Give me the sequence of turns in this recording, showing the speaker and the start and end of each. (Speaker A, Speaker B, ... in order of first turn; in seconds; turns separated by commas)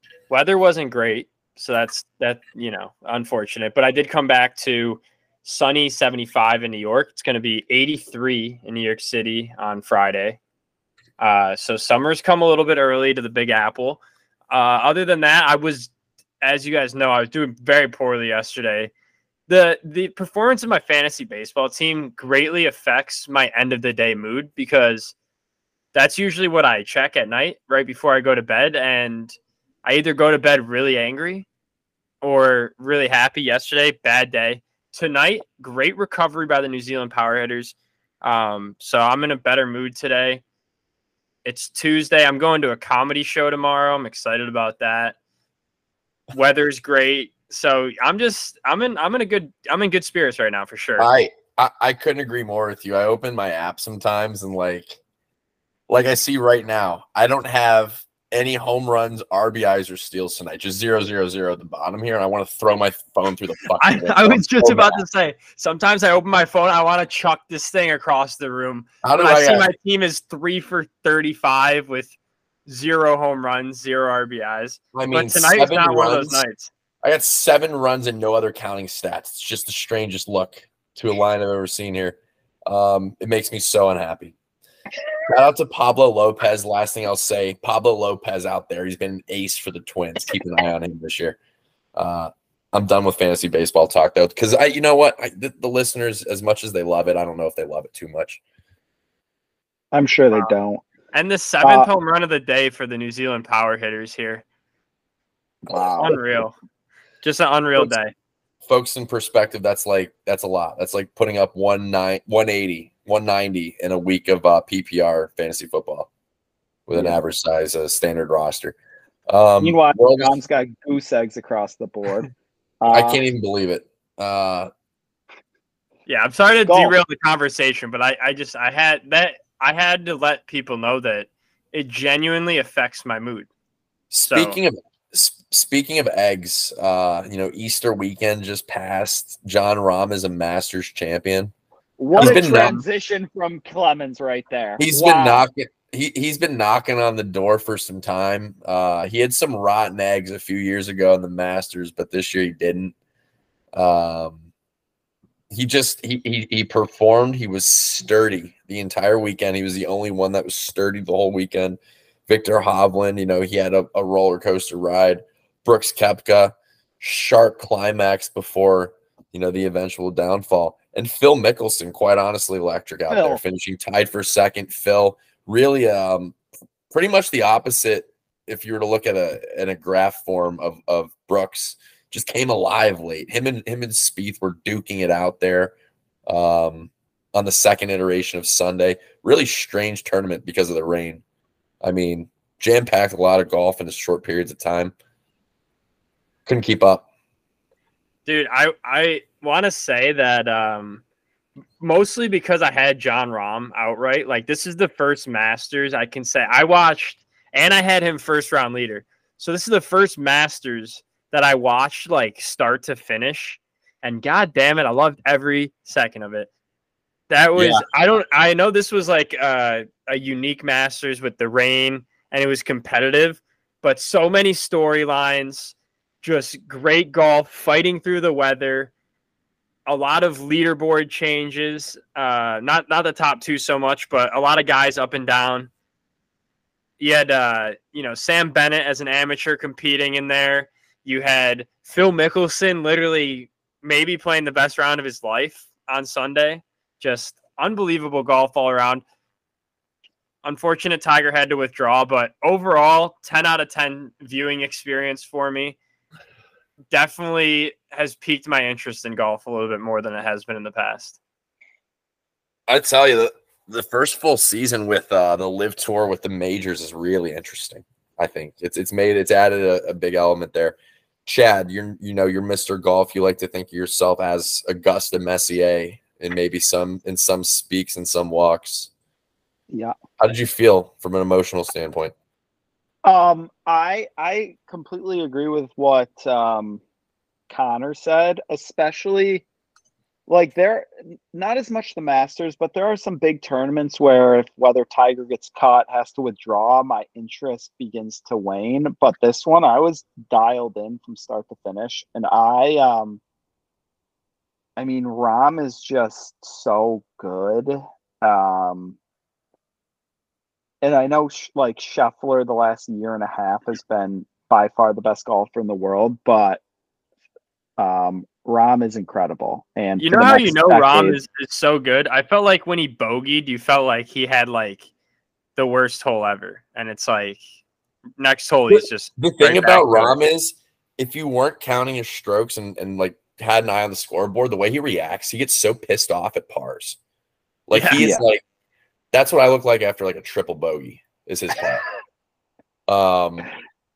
Speaker A: 0.3-10.4, Speaker A: 11.2-18.9, Speaker A: 19.5-25.1, Speaker A: 25.9-31.4, Speaker A: 32.2-40.4, Speaker A: 41.4-45.1, Speaker A: 46.3-51.1, Speaker B: 51.0-55.0, Speaker B: 55.9-65.0, Speaker A: 63.8-72.1, Speaker B: 69.0-69.7, Speaker A: 72.7-76.7, Speaker B: 74.9-76.4, Speaker B: 77.0-84.3, Speaker B: 85.3-91.4, Speaker B: 92.0-98.4, Speaker C: 99.9-100.8, Speaker A: 101.1-104.4, Speaker C: 101.6-101.9, Speaker C: 105.7-106.2, Speaker A: 106.0-106.5, Speaker A: 107.2-108.1, Speaker B: 108.6-116.1, Speaker B: 116.9-118.8, Speaker C: 116.9-117.2, Speaker B: 119.3-120.3, Speaker C: 119.6-122.3, Speaker C: 122.8-123.2, Speaker B: 122.9-124.7, Speaker A: 126.0-133.5, Speaker C: 126.7-126.9, Speaker B: 134.1-141.5, Speaker A: 134.3-134.6, Speaker C: 142.0-145.4, Speaker A: 142.1-142.8, Speaker B: 142.2-142.8, Speaker B: 144.8-152.9, Speaker B: 153.7-154.4, Speaker B: 155.5-176.4, Speaker C: 173.1-173.4, Speaker B: 176.9-185.7, Speaker B: 186.2-191.2, Speaker B: 191.8-194.9, Speaker B: 196.4-197.0, Speaker A: 198.2-201.0, Speaker A: 201.8-216.5, Speaker A: 217.3-228.9, Speaker B: 217.6-217.8, Speaker A: 229.8-235.7, Speaker A: 237.0-249.0, Speaker A: 250.4-255.8, Speaker A: 256.9-261.2, Speaker B: 262.7-278.9, Speaker B: 280.2-282.1, Speaker C: 283.0-286.8, Speaker C: 287.5-289.4, Speaker C: 290.3-303.2, Speaker C: 304.8-309.0, Speaker C: 310.8-316.6, Speaker C: 317.8-321.2, Speaker A: 320.0-324.9, Speaker A: 325.6-327.4, Speaker A: 328.2-330.2, Speaker B: 328.7-337.0, Speaker B: 337.7-338.4, Speaker A: 337.7-338.0, Speaker C: 338.0-338.2, Speaker B: 339.1-341.8, Speaker B: 342.9-343.5